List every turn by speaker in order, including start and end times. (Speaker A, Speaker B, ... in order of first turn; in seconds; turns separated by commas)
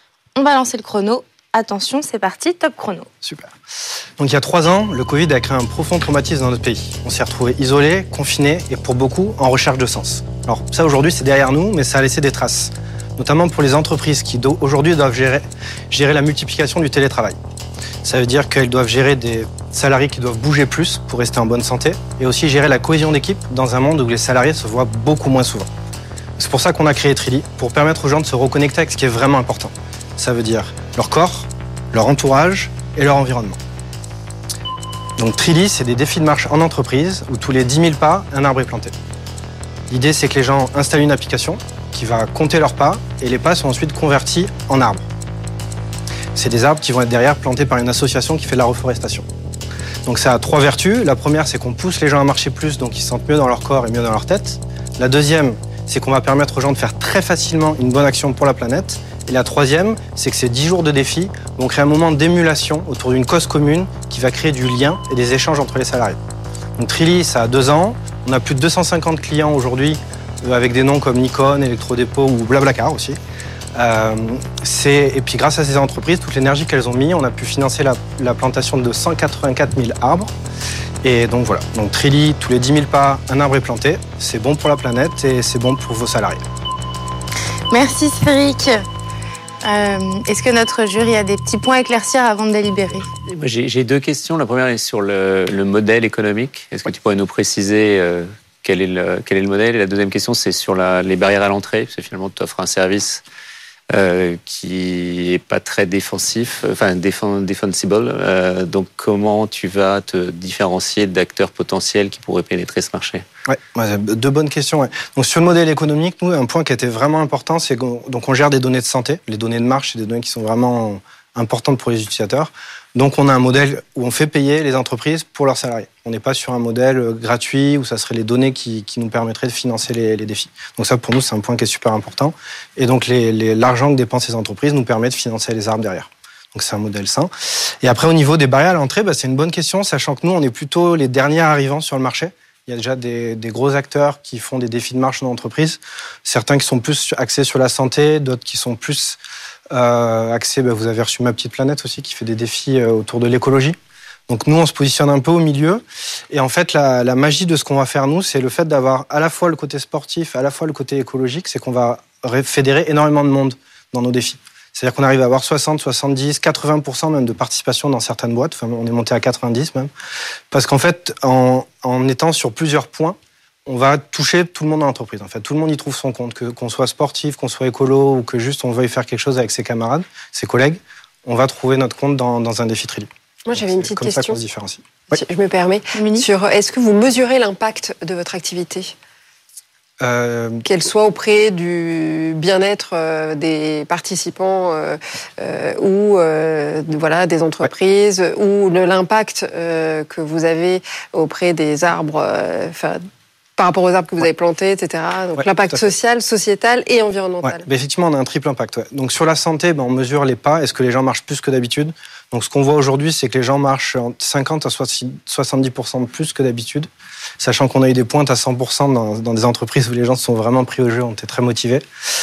Speaker A: 0.3-3.1, Speaker B: 3.2-3.5, Speaker B: 4.2-17.4, Speaker B: 18.0-25.7, Speaker B: 26.4-33.6, Speaker B: 35.2-38.9, Speaker B: 39.9-45.0, Speaker B: 46.3-49.2, Speaker B: 50.0-66.2, Speaker B: 66.8-73.2, Speaker B: 73.7-80.3, Speaker B: 81.0-86.4, Speaker A: 87.7-88.8, Speaker A: 89.6-93.1, Speaker C: 93.3-103.2, Speaker C: 103.9-113.2, Speaker B: 113.5-137.3, Speaker B: 137.8-149.2, Speaker B: 149.7-153.8, Speaker B: 154.3-169.9, Speaker B: 170.5-185.2, Speaker D: 183.5-184.4, Speaker D: 185.2-188.9, Speaker A: 185.9-186.3, Speaker B: 190.0-190.7, Speaker D: 190.7-203.0, Speaker D: 203.6-207.6, Speaker B: 205.3-205.8, Speaker B: 207.4-216.9, Speaker B: 217.4-221.8